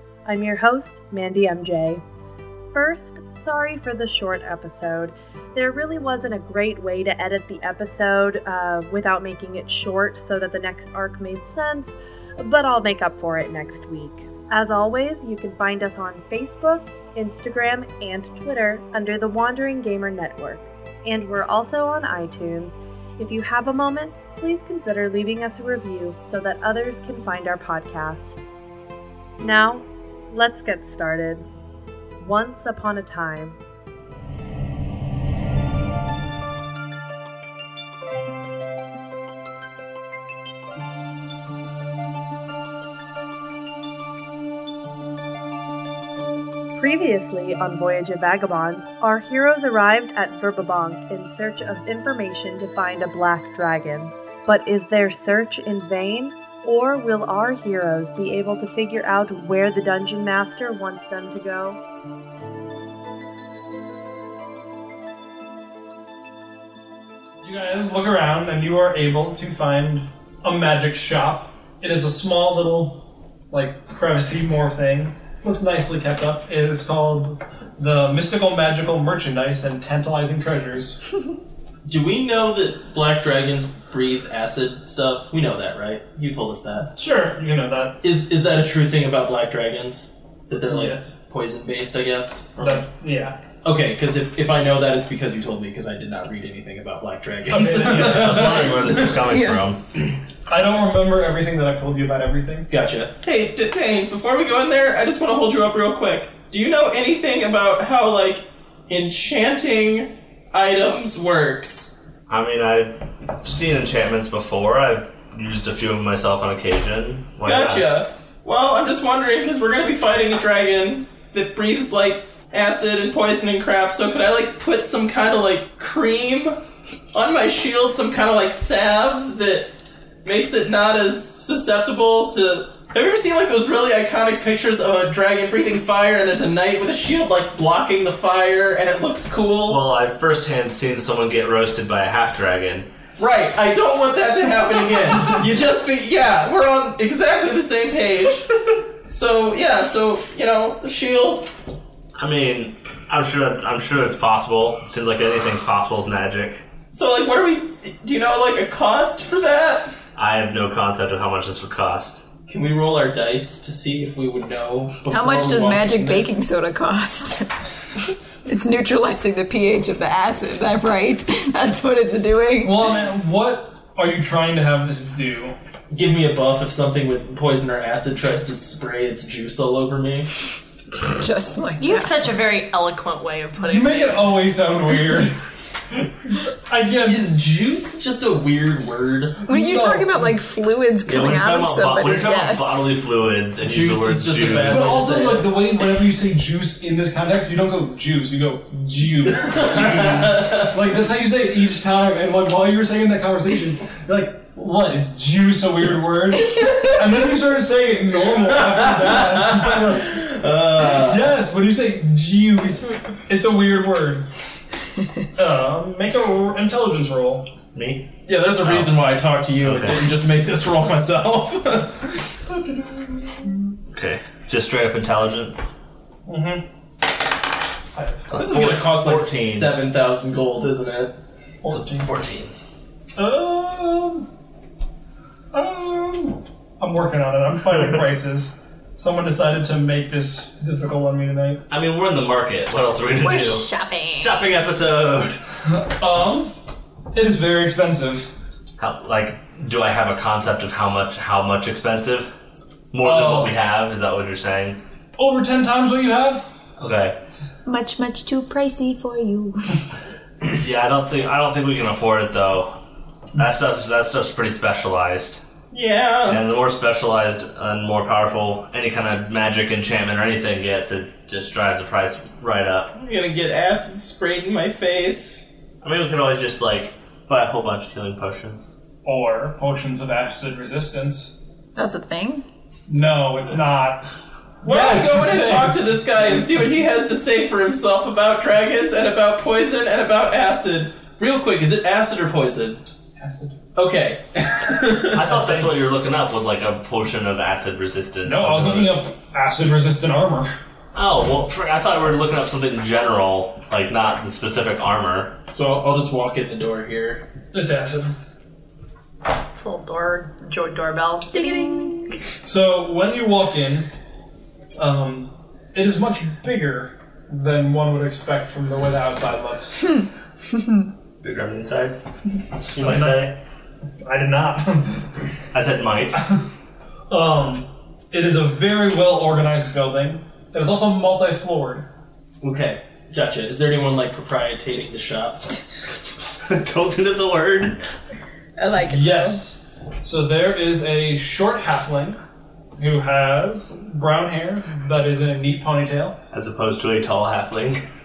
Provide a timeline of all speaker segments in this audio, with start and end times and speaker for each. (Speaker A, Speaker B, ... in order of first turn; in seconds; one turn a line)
Speaker A: 0.3-2.0
Speaker A: 2.7-28.4
Speaker A: 29.4-31.5
Speaker A: 32.2-33.6
Speaker A: 46.8-61.8
Speaker B: 67.4-81.1
Speaker C: 81.9-86.9
Speaker B: 87.0-88.0
Speaker C: 88.0-92.8
Speaker B: 90.7-91.1
Speaker B: 92.6-93.4
Speaker C: 93.6-99.2
Speaker B: 97.5-98.6
Speaker D: 97.5-99.8
Speaker E: 99.3-99.6
Speaker B: 100.5-102.7
Speaker C: 102.7-112.0
Speaker D: 112.3-118.0
Speaker C: 117.5-126.6
Speaker C: 127.1-129.7
Speaker C: 130.2-139.8
Speaker D: 139.7-142.9
Speaker C: 143.2-151.5
Speaker D: 152.2-156.6
Speaker C: 156.9-159.9
Speaker D: 160.2-162.2
Speaker C: 162.5-166.3
Speaker E: 165.1-167.5
Speaker E: 168.1-172.8
Speaker B: 172.6-175.6
Speaker C: 175.9-180.3
Speaker E: 181.1-182.3
Speaker F: 181.8-184.2
Speaker B: 183.6-185.4
Speaker B: 186.3-187.3
Speaker C: 187.1-189.4
Speaker E: 189.5-192.9
Speaker B: 189.5-190.3
Speaker D: 191.1-195.1
Speaker C: 193.6-195.5
Speaker B: 194.7-210.3
Speaker C: 199.7-200.7
Speaker C: 208.7-211.2
Speaker B: 210.8-214.3
Speaker B: 215.3-217.5
Speaker D: 217.7-219.1
Speaker C: 218.3-223.4
Speaker D: 219.6-220.2
Speaker D: 223.9-225.8
Speaker B: 226.3-226.6
Speaker B: 227.9-228.3
Speaker D: 228.3-229.8
Speaker C: 228.4-231.2
Speaker B: 231.6-232.1
Speaker D: 231.7-232.5
Speaker B: 233.2-234.3
Speaker B: 235.5-241.6
Speaker D: 241.7-243.7
Speaker E: 243.2-244.3
Speaker D: 244.2-245.4
Speaker B: 245.7-246.5
Speaker B: 247.1-248.3
Speaker D: 248.8-252.3
Speaker D: 252.9-254.8
Speaker B: 253.0-253.6
Speaker B: 255.2-256.5
Speaker D: 256.8-257.2
Speaker E: 257.6-259.8
Speaker D: 260.5-262.8
Speaker D: 263.4-265.4
Speaker C: 265.7-266.4
Speaker D: 266.3-272.9
Speaker C: 272.9-275.5
Speaker D: 275.8-278.8
Speaker B: 279.1-281.4
Speaker E: 281.8-282.4
Speaker B: 282.9-284.1
Speaker B: 284.6-285.9
Speaker C: 284.6-292.8
Speaker B: 293.2-293.6
Speaker C: 293.8-295.2
Speaker D: 295.1-298.9
Speaker B: 295.3-295.7
Speaker B: 298.2-300.5
Speaker D: 300.9-305.3
Speaker C: 305.5-307.2
Speaker B: 307.5-308.1
Speaker F: 309.6-311.9
Speaker E: 311.3-312.2
Speaker B: 312.4-313.9
Speaker B: 314.8-319.9
Speaker D: 321.2-321.9
Speaker D: 322.7-323.3
Speaker B: 322.8-323.4
Speaker B: 324.0-325.1
Speaker D: 325.5-326.2
Speaker B: 327.1-331.9
Speaker C: 332.4-335.6
Speaker D: 336.4-337.8
Speaker E: 338.6-339.4
Speaker B: 338.8-342.2
Speaker B: 342.8-346.2
Speaker D: 346.3-347.8